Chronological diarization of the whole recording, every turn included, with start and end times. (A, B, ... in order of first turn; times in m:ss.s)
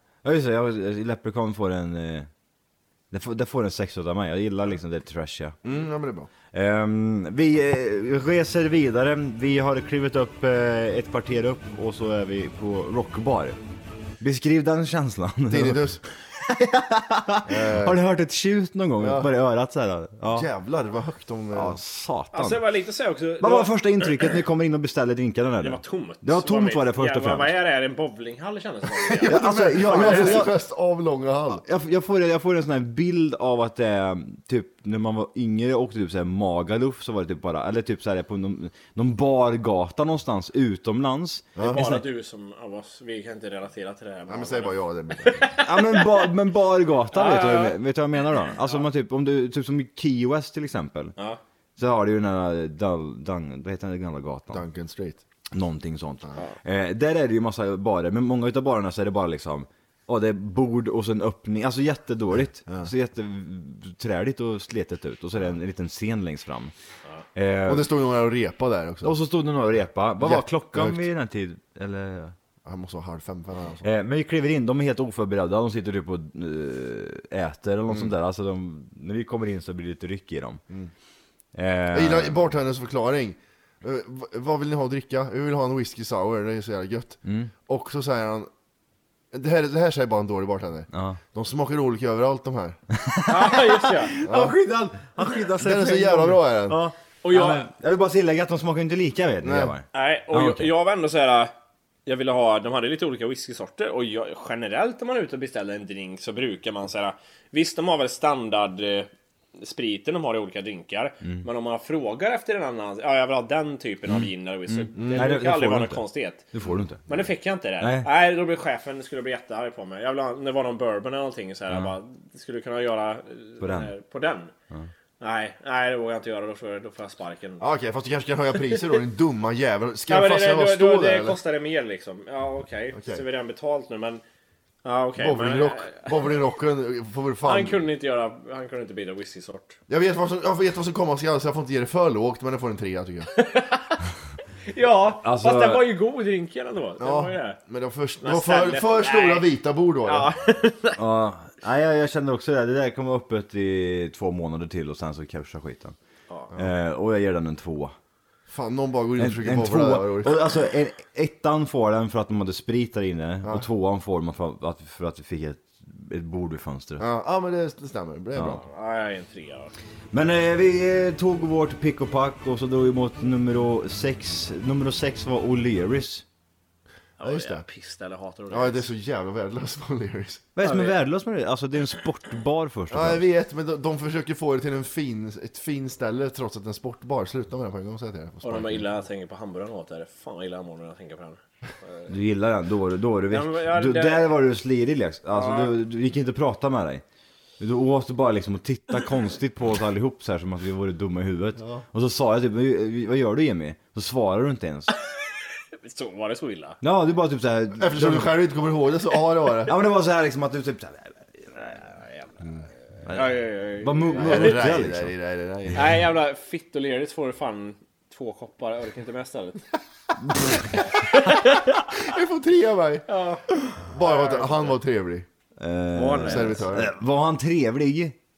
0:00.2-0:02.3 A
0:03.1-0:05.6 A
0:05.6-0:06.3 B
0:06.5-0:13.6 A
0:14.2-0:20.5 A
0:15.5-0:16.0 B
0:17.5-0:18.0 B
0:19.0-0:19.3 B
0:20.3-0:21.8 B
0:21.5-0:22.6 A
0:22.3-0:24.3 C
0:23.4-0:27.6 A
0:25.6-0:30.4 C
0:29.0-0:31.6 B
0:29.2-0:30.6 A
0:31.6-0:42.0 A
0:41.6-0:41.8 B
0:41.6-0:46.3 C
0:44.3-0:45.5 B
0:45.5-0:51.1 A
0:47.1-0:47.8 C
0:51.8-0:54.6 A
0:54.5-0:55.2 B
0:55.5-1:06.7 A
1:07.4-1:07.9 A
1:07.7-1:09.2 B
1:09.0-1:12.4 A
1:10.2-1:11.0 B
1:12.6-1:13.8 B
1:13.8-1:20.6 A
1:21.5-1:22.4 A
1:21.9-1:28.5 B
1:27.3-1:27.5 A
1:29.3-1:32.8 B
1:30.9-1:31.2 A
1:32.9-1:40.7 A
1:33.3-1:34.2 C
1:34.2-1:34.6 B
1:35.6-1:36.8 B
1:36.8-1:37.7 C
1:39.4-1:39.7 B
1:39.9-1:41.5 C
1:42.1-1:56.5 C
1:54.1-1:57.3 A
1:55.0-1:55.3 B
1:57.1-2:04.5 C
1:57.8-1:58.1 A
2:03.6-2:03.9 A
2:05.2-2:07.6 C
2:07.6-2:11.4 B
2:10.1-2:14.2 C
2:12.9-2:13.2 B
2:14.8-2:16.1 C
2:15.2-2:17.8 B
2:17.4-2:19.8 C
2:19.9-2:23.3 B
2:23.4-2:24.0 C
2:24.7-2:27.6 C
2:25.2-2:25.9 A
2:27.0-2:30.3 B
2:28.2-2:29.5 C
2:30.0-2:31.0 C
2:31.0-2:36.0 A
2:36.6-2:37.9 A
2:38.5-2:40.4 B
2:39.2-2:47.0 A
2:47.0-2:48.6 B
2:48.5-2:49.7 C
2:50.1-2:56.2 A
2:57.2-2:58.9 C
2:57.2-2:57.6 B
2:58.5-3:00.5 B
3:00.6-3:03.3 A
3:00.6-3:01.0 C
3:02.9-3:08.9 B
3:08.4-3:12.1 C
3:12.1-3:17.0 A
3:13.3-3:14.3 C
3:15.3-3:15.8 C
3:17.6-3:24.9 A
3:25.8-3:26.8 C
3:26.8-3:28.3 A
3:27.8-3:29.8 B
3:29.7-3:32.0 A
3:33.0-3:35.1 A
3:33.1-3:34.6 C
3:34.2-3:36.0 B
3:35.7-3:39.6 C
3:40.3-3:40.6 A
3:41.0-3:41.8 C
3:41.9-3:43.0 B
3:43.1-3:43.5 C
3:43.9-3:45.3 B
3:44.0-3:44.8 C
3:45.6-3:48.2 A
3:45.9-3:46.6 C
3:46.2-3:46.9 B